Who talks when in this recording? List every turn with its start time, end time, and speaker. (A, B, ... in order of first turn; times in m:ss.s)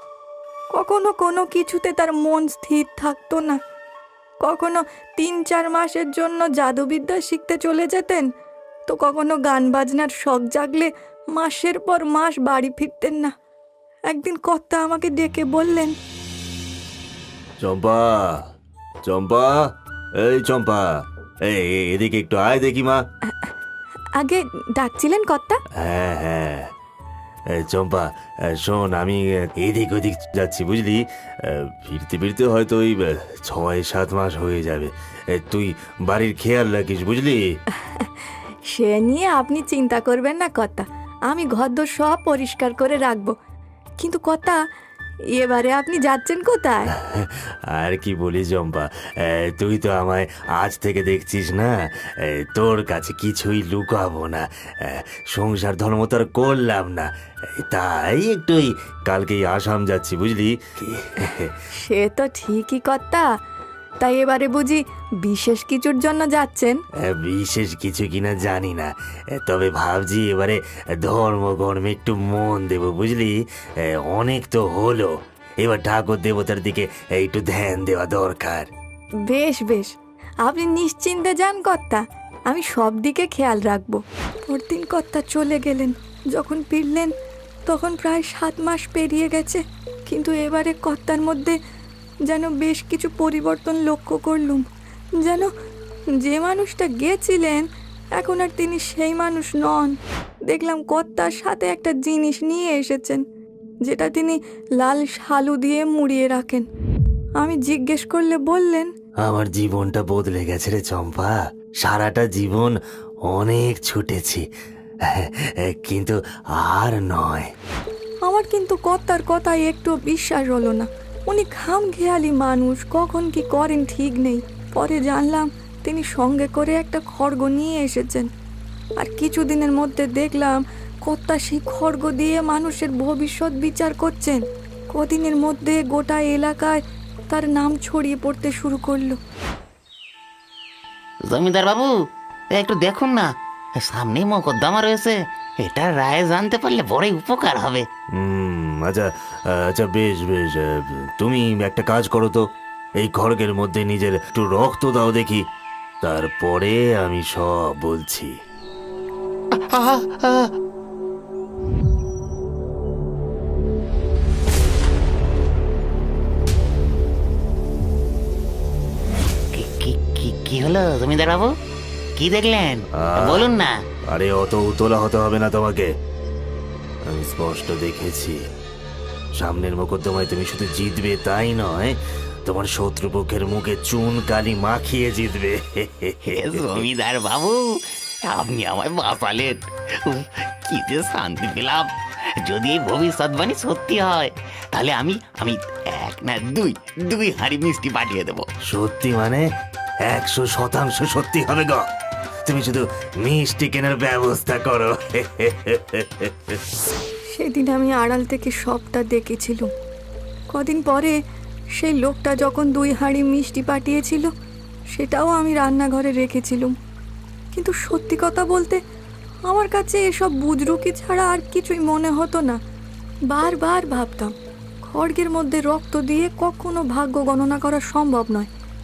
0:00.7-0:03.6 A
0:04.4-0:08.3 A
0:08.9-0:13.3 A
0:14.1-0:16.0 A
0:17.6-0:18.4 B
0:19.0-0:19.7 B
0:20.2-0:20.9 B
0:21.4-0:23.0 B
0:24.2-0:25.6 A
0:25.8-0:26.7 B
0:27.5-0:37.4 B
0:37.8-0:38.1 A
0:38.7-0:43.3 A
0:44.0-0:44.6 A
0:45.4-0:46.9 A
0:47.0-1:01.5 B
1:01.7-1:03.3 A
1:04.0-1:06.8 A
1:07.0-1:18.7 B
1:19.3-1:19.9 A
1:20.4-1:27.1 A
1:27.6-1:31.6 A
1:32.3-1:34.6 A
1:35.2-1:35.5 A
1:36.2-1:37.6 A
1:38.2-1:43.2 A
1:43.8-1:46.7 A
1:47.4-1:48.9 A
1:49.2-1:52.8 B
1:53.3-1:54.4 B
1:55.0-1:57.5 B
1:58.2-2:08.3 A
2:09.0-2:19.2 A
2:21.2-2:21.9 C
2:22.5-2:27.9 C
2:28.2-2:32.4 B
2:33.0-2:35.4 B
2:36.0-2:38.3 B
2:39.7-2:40.5 C
2:49.5-2:51.5 C
2:52.2-2:53.7 C
2:52.9-2:53.5 B
2:54.1-2:55.9 B
2:57.0-2:58.4 B
2:59.4-3:06.8 B
3:06.3-3:07.6 C
3:08.3-3:11.9 C
3:12.4-3:18.5 C
3:18.7-3:19.4 B
3:20.0-3:21.8 B
3:22.4-3:26.6 B
3:27.3-3:29.7 A
3:30.5-3:31.2 A
3:31.8-3:34.3 A
3:34.9-3:36.8 A
3:37.5-3:38.8 A
3:39.5-3:42.6 A
3:43.3-3:48.5 A